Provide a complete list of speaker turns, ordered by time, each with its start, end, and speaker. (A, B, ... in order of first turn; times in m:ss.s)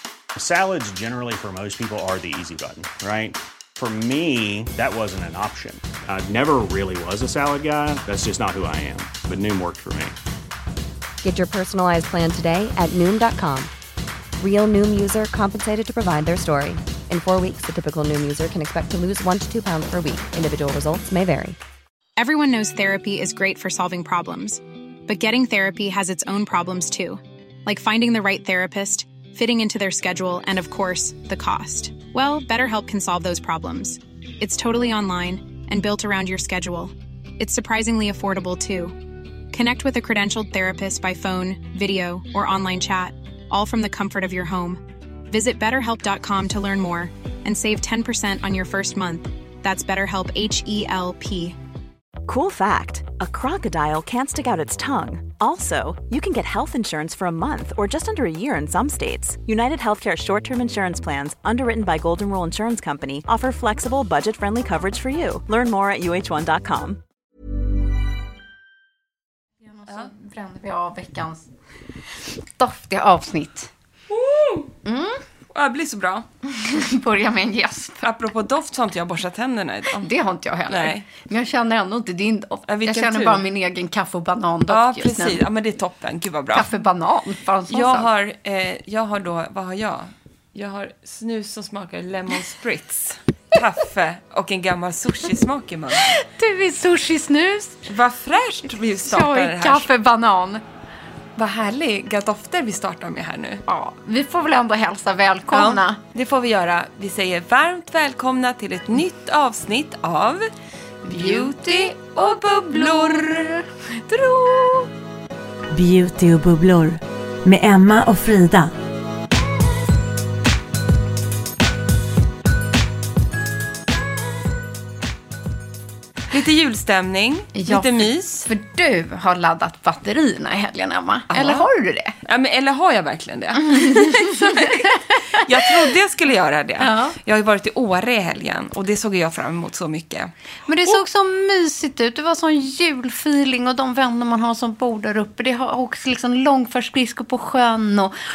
0:00.4-0:10.2 A
0:11.2-0:13.7 B
0:14.4-0:21.6 B
0:22.2-0:39.0 C
0:39.5-0:51.6 C
0:52.3-1:07.0 D
1:09.7-1:11.5 E
1:12.6-1:13.7 E
1:14.1-1:14.7 F
1:14.8-1:15.2 E
1:15.5-1:16.3 F
1:16.5-1:18.1 E
1:18.0-1:20.1 F
1:19.9-1:25.4 E
1:20.7-1:21.1 F
1:22.7-1:23.5 F
1:24.7-1:26.7 F
1:26.5-1:28.1 E
1:27.7-1:36.1 F
1:36.0-1:37.8 E
1:37.9-1:39.9 F
1:39.0-1:40.6 E
1:41.4-1:43.6 F
1:43.7-1:46.0 E
1:45.5-1:50.4 F
1:51.0-1:54.9 E
1:51.1-1:53.6 F
1:55.7-1:58.7 G
2:06.3-2:08.5 F
2:07.5-2:12.2 E
2:11.3-2:11.7 F
2:12.2-2:20.3 F
2:13.6-2:15.8 E
2:16.8-2:17.2 E
2:20.7-2:28.1 E